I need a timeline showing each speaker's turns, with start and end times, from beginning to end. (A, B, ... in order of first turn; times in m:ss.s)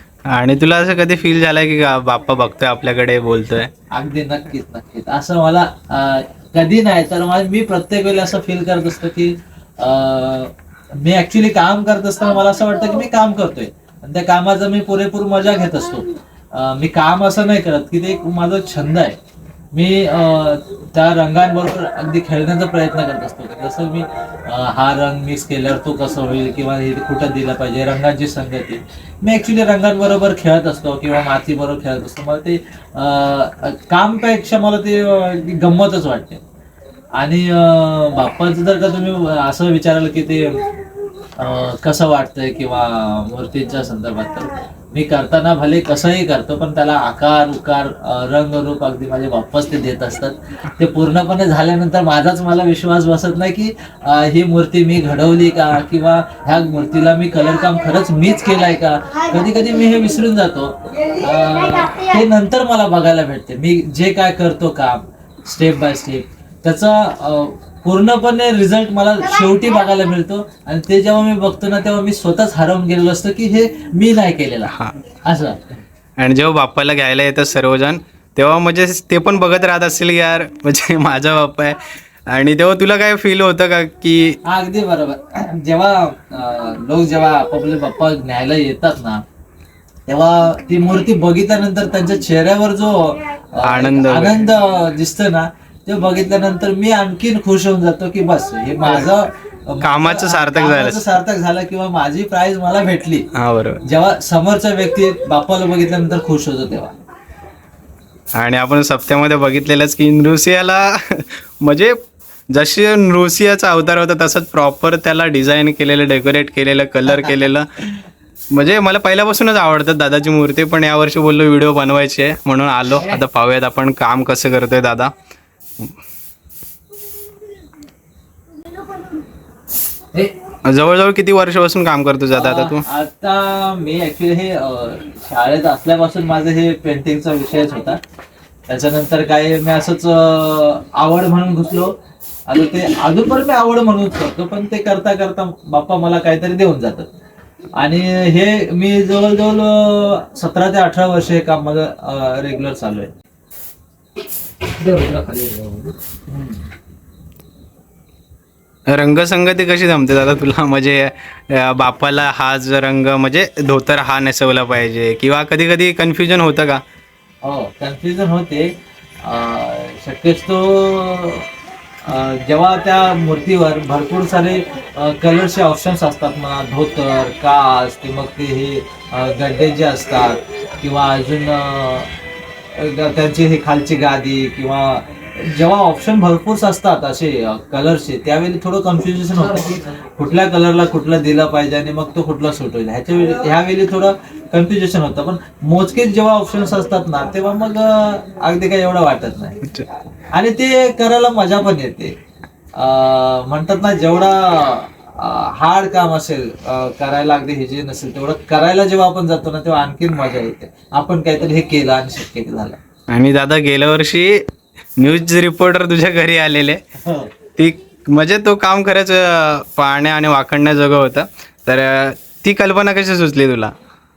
0:00.3-0:03.7 A
0:03.9-0:19.2 B
0:19.7-0:36.4 B
0:37.2-0:40.7 B
0:41.4-1:15.7 B
1:14.7-1:15.0 A
1:16.2-1:24.4 A
1:24.4-1:29.2 B
1:30.1-1:43.3 B
1:33.6-1:34.5 A
1:38.8-1:39.1 A
1:39.8-1:41.2 A
1:43.3-1:43.8 A
1:43.8-1:46.9 B
1:48.3-1:52.0 A
1:52.5-1:57.7 A
1:58.5-2:05.1 A
2:10.6-2:12.8 A
2:12.3-2:18.0 B
2:18.7-2:22.0 B
2:22.5-2:27.1 B
2:27.8-2:33.1 B
2:34.8-2:36.6 B
2:38.9-2:46.8 A
2:47.4-2:51.5 B
2:52.0-3:02.1 B
3:02.7-3:19.7 B
3:20.3-3:22.1 B
3:22.8-3:32.8 B
3:33.1-3:34.4 A
3:35.0-3:36.8 A
3:37.0-3:37.3 B
3:37.6-3:43.7 A